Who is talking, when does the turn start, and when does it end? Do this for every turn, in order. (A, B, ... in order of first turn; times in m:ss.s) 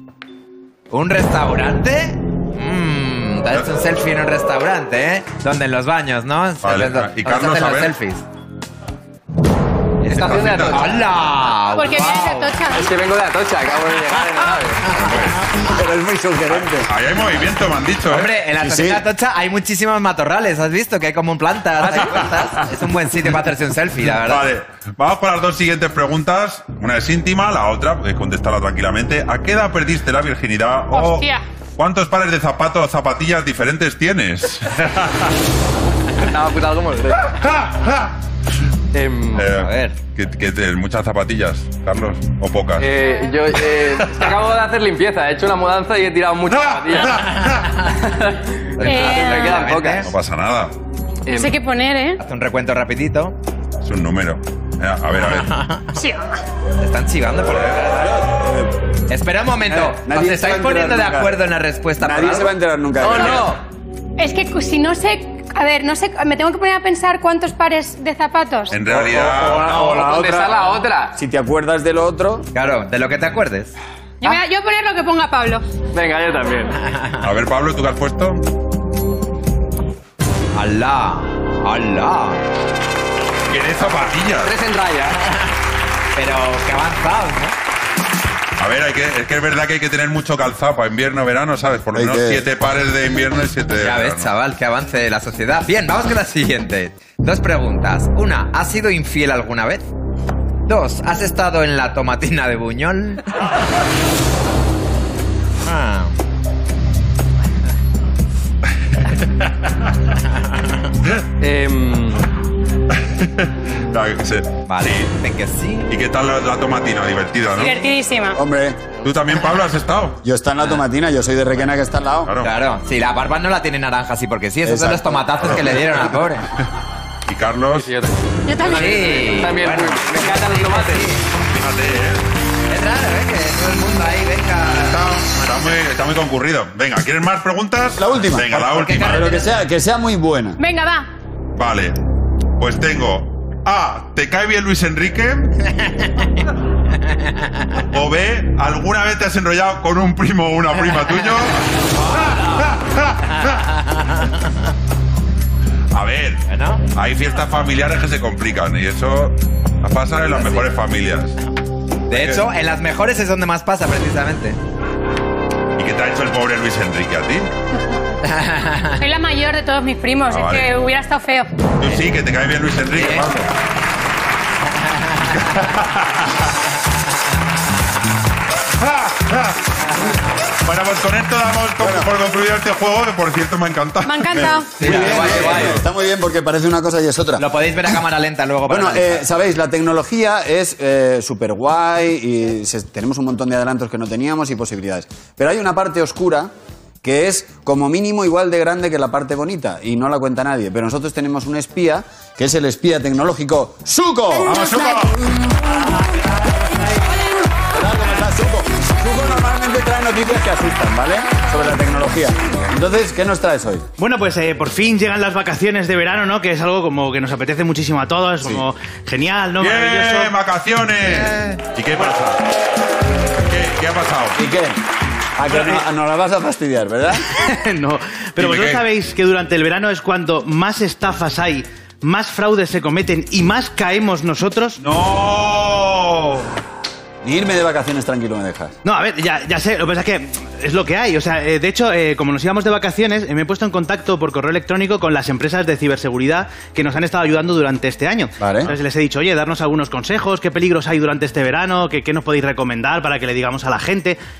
0:00.9-0:08.2 A
0:03.5-0:03.8 B
0:06.6-0:08.0 B
0:10.0-0:12.6 A
0:10.1-0:10.9 C
0:10.1-0:10.9 B
0:11.7-0:12.9 D
0:12.7-0:15.0 C
0:14.9-0:15.4 B
0:15.0-0:15.4 A
0:15.6-0:16.9 E
0:16.5-0:18.4 B
0:18.1-0:24.5 A
0:18.6-0:19.0 E
0:21.9-0:22.6 B
0:24.0-0:35.3 B
0:30.9-0:31.4 D
0:36.2-0:37.3 C
0:38.9-0:39.5 C
0:39.3-0:42.9 B
0:39.5-0:40.0 A
0:42.8-0:47.3 C
0:47.9-0:50.1 C
0:48.8-0:50.1 A
0:48.8-0:49.6 D
0:50.0-0:50.7 B
0:51.2-0:51.6 C
0:51.3-0:52.2 D
0:52.2-0:53.4 A
0:53.8-0:55.5 B
0:55.2-0:56.0 A
0:56.0-0:56.2 D
0:56.8-0:58.0 A
0:57.5-0:57.8 B
0:57.8-0:58.7 E
0:59.1-1:02.5 A
0:59.6-1:01.4 E
1:02.0-1:03.6 E
1:03.0-1:03.6 C
1:04.2-1:08.8 D
1:08.7-1:09.7 B
1:08.8-1:12.5 E
1:09.4-1:11.2 C
1:12.5-1:13.7 A
1:14.2-1:15.6 D
1:15.9-1:16.8 C
1:17.2-1:18.4 B
1:20.5-1:22.4 A
1:23.5-1:24.5 B
1:24.4-1:25.2 C
1:25.2-1:25.5 A
1:26.1-1:27.5 A
1:28.6-1:34.3 B
1:31.9-1:32.5 E
1:33.8-1:39.9 A
1:40.6-1:43.2 A
1:45.6-1:46.1 A
1:49.0-1:49.5 B
1:51.4-1:52.3 C
1:52.9-1:55.2 B
1:54.6-1:56.0 A
1:55.9-1:57.8 B
1:57.5-1:58.4 D
1:58.3-1:58.9 E
1:59.0-2:00.2 B
2:00.2-2:02.3 E
2:02.2-2:02.6 B
2:02.4-2:06.5 A
2:04.6-2:05.9 E
2:05.4-2:05.7 B
2:07.3-2:07.9 B
2:07.7-2:11.1 C
2:08.5-2:09.1 D
2:08.6-2:11.3 A
2:11.4-2:12.2 B
2:12.7-2:15.7 A
2:14.7-2:19.3 B
2:18.0-2:20.6 E
2:18.7-2:19.5 A
2:20.6-2:21.1 D
2:21.6-2:22.0 B
2:22.6-2:25.5 B
2:27.8-2:33.6 B
2:33.4-2:34.3 A
2:35.9-2:41.4 B
2:36.5-2:36.8 A
2:40.3-2:40.6 A
2:42.1-2:44.6 A
2:42.1-2:42.5 B
2:45.8-2:47.5 B
2:48.2-2:49.0 A
2:49.0-2:51.5 D
2:50.3-2:50.7 B
2:51.8-2:53.5 B
2:52.9-2:53.3 A
2:55.3-2:55.6 A
2:55.4-2:56.3 B
2:58.8-2:59.6 B
3:00.6-3:05.8 B
3:01.8-3:02.1 E
3:04.0-3:04.8 D
3:04.8-3:05.8 A
3:04.8-3:08.0 E
3:07.4-3:09.3 A
3:08.7-3:16.5 E
3:17.0-3:24.8 E
3:24.4-3:25.2 B
3:27.7-3:33.9 E
3:34.0-3:40.3 F
3:39.6-3:42.4 B
3:43.4-3:44.4 B
3:44.4-3:44.8 E
3:45.4-3:47.3 E
3:45.5-3:45.8 F
3:47.3-3:54.8 F
3:48.4-3:48.8 B
3:54.8-3:56.5 B
3:57.2-3:58.8 E
3:58.8-4:14.2 F
4:08.4-4:08.7 E